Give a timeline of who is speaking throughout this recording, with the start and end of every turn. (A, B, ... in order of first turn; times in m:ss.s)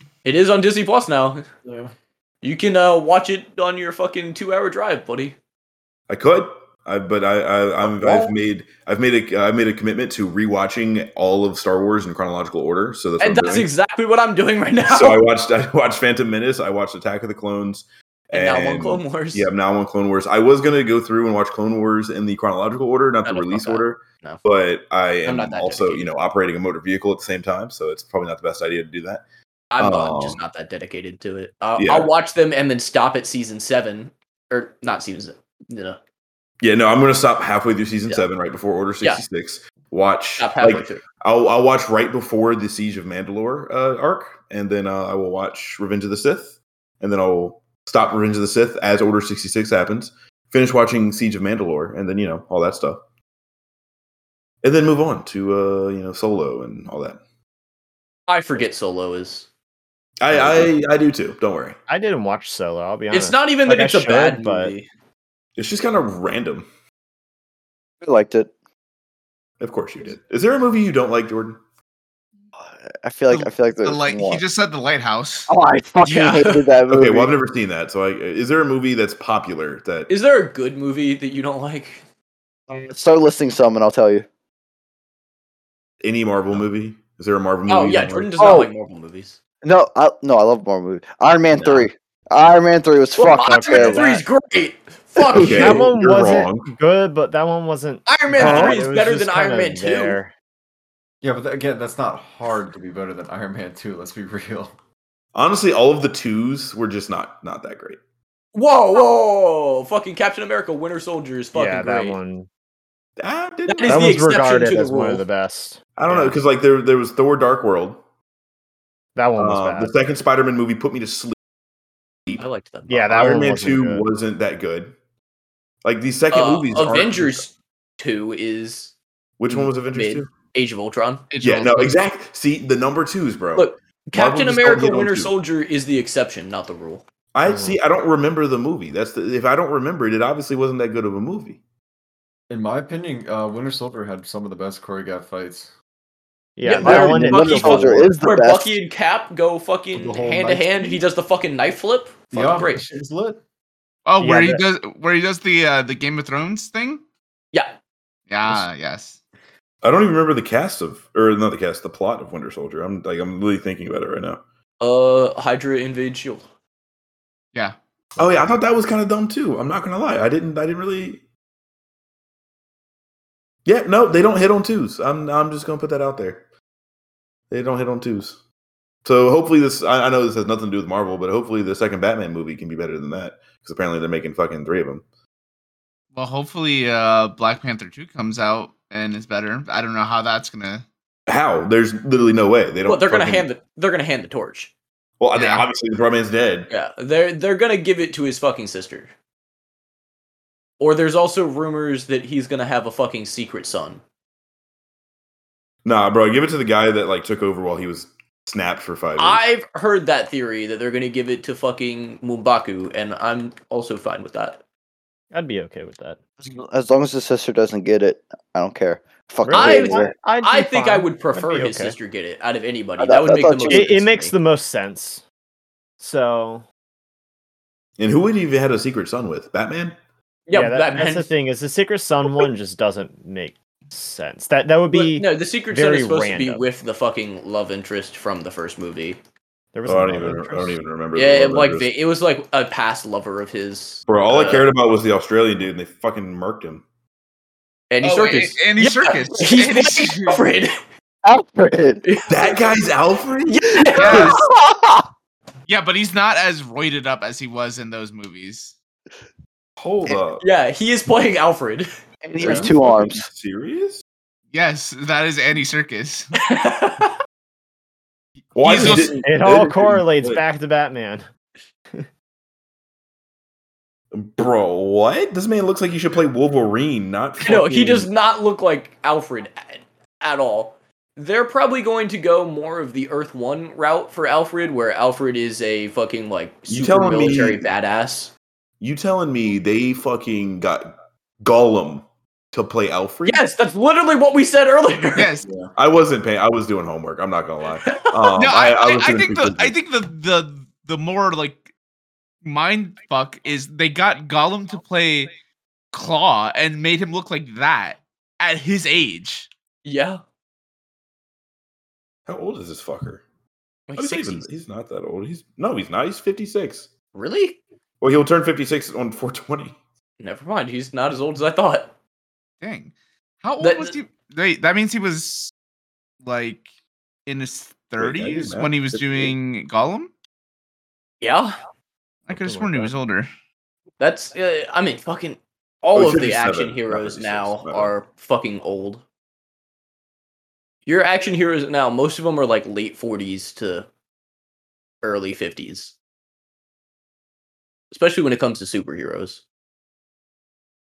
0:00.2-0:01.6 A
0:01.6-0:01.9 B
0:02.4-0:05.4 A
0:06.1-0:13.7 C
0:07.8-0:08.3 A
0:13.2-0:15.2 A
0:14.8-0:29.2 C
0:18.3-0:19.5 A
0:23.2-0:24.4 A
0:25.2-0:26.1 A
0:29.7-0:36.0 A
0:29.8-0:30.4 C
0:31.8-0:32.1 C
0:36.6-0:53.0 C
0:40.4-0:41.0 A
0:54.6-0:57.2 C
0:58.3-0:59.5 A
1:00.2-1:01.8 C
1:01.9-1:04.7 D
1:03.1-1:04.9 A
1:05.6-1:06.7 C
1:08.0-1:08.5 E
1:09.6-1:11.6 C
1:12.6-1:14.4 E
1:13.3-1:15.5 F
1:15.5-1:17.3 E
1:16.0-1:16.7 A
1:16.9-1:20.1 C
1:20.1-1:22.0 A
1:22.7-1:24.2 E
1:26.0-1:28.3 C
1:27.7-1:29.4 A
1:28.4-1:28.7 E
1:29.6-1:34.2 E
1:31.5-1:31.9 A
1:33.2-1:35.9 A
1:33.4-1:34.2 D
1:35.3-1:36.7 C
1:35.3-1:40.3 D
1:38.1-1:40.2 A
1:38.4-1:38.7 C
1:41.2-1:44.7 B
1:45.3-1:48.0 C
1:48.5-1:52.2 A
1:51.5-1:52.5 D
1:53.2-1:54.2 C
1:53.7-1:55.2 A
1:53.9-1:56.4 D
1:56.0-1:58.0 C
1:59.2-2:00.0 D
1:59.4-2:01.4 C
2:02.4-2:03.3 A
2:02.9-2:04.1 D
2:03.1-2:04.9 C
2:05.8-2:07.4 C
2:06.3-2:08.9 A
2:09.4-2:10.3 C
2:09.5-2:11.3 A
2:11.3-2:12.0 F
2:11.4-2:15.3 C
2:13.6-2:17.0 A
2:17.3-2:21.6 C
2:17.4-2:17.8 D
2:22.5-2:25.7 B
2:26.6-2:28.1 D
2:26.6-2:32.8 A
2:26.8-2:28.7 E
2:29.9-2:31.0 B
2:32.3-2:33.4 B
2:34.0-2:37.0 F
2:34.2-2:34.6 D
2:38.3-2:39.2 F
2:39.8-2:44.4 C
2:44.8-2:46.4 A
2:48.2-2:51.2 C
2:53.6-2:56.4 C
2:57.5-2:58.4 C
2:59.0-3:05.0 C
3:06.1-3:10.8 F
3:11.3-3:13.5 C
3:12.9-3:14.7 A
3:15.2-3:16.7 C
3:15.3-3:15.7 F
3:16.7-3:19.1 A
3:20.8-3:24.0 A
3:25.8-3:29.4 C
3:29.2-3:34.6 A
3:35.3-3:36.2 D
3:36.4-3:40.1 E
3:39.4-3:41.9 D
3:39.5-3:44.3 A
3:43.0-3:43.9 E
3:43.6-3:45.2 D
3:46.0-3:46.6 D
3:48.0-3:50.0 C
3:50.5-3:51.3 A
3:50.5-3:56.6 D
3:54.9-3:59.2 A
3:59.7-4:00.8 D
3:59.8-4:01.9 C
4:01.1-4:04.7 A
4:04.1-4:06.8 C
4:07.9-4:10.7 A
4:08.0-4:10.4 F
4:11.2-4:12.0 E
4:12.0-4:12.8 A
4:12.3-4:13.7 C
4:13.5-4:15.0 A
4:14.0-4:14.4 F
4:15.7-4:18.7 F
4:19.8-4:20.4 C
4:20.0-4:21.9 A
4:22.2-4:23.2 E
4:22.4-4:24.0 C
4:22.4-4:22.7 A
4:24.5-4:26.4 F
4:26.4-4:27.2 A
4:28.5-4:30.4 C
4:28.6-4:29.2 F
4:28.6-4:29.2 A
4:29.2-4:31.2 D
4:34.1-4:38.1 C
4:37.4-4:48.3 A
4:46.7-4:47.7 C
4:48.8-4:53.4 C
4:53.2-4:55.6 A
4:55.2-4:55.5 F
4:55.8-4:59.8 C
4:57.8-4:58.3 A
4:58.3-5:01.7 F
5:02.4-5:05.3 F
5:05.9-5:09.5 F
5:09.8-5:10.2 A
5:12.3-5:13.2 C
5:13.9-5:14.5 A
5:13.9-5:16.9 C
5:17.1-5:17.6 A
5:18.0-5:19.8 C
5:20.2-5:21.9 A
5:22.6-5:25.5 F
5:23.6-5:24.0 A
5:26.2-5:26.6 F
5:27.2-5:30.1 F
5:28.0-5:29.3 C
5:31.2-5:31.6 A
5:32.2-5:33.3 F
5:32.3-5:32.9 D
5:34.0-5:39.0 A
5:35.9-5:37.9 C
5:40.9-5:43.9 A
5:45.0-5:46.0 A
5:47.9-5:49.4 A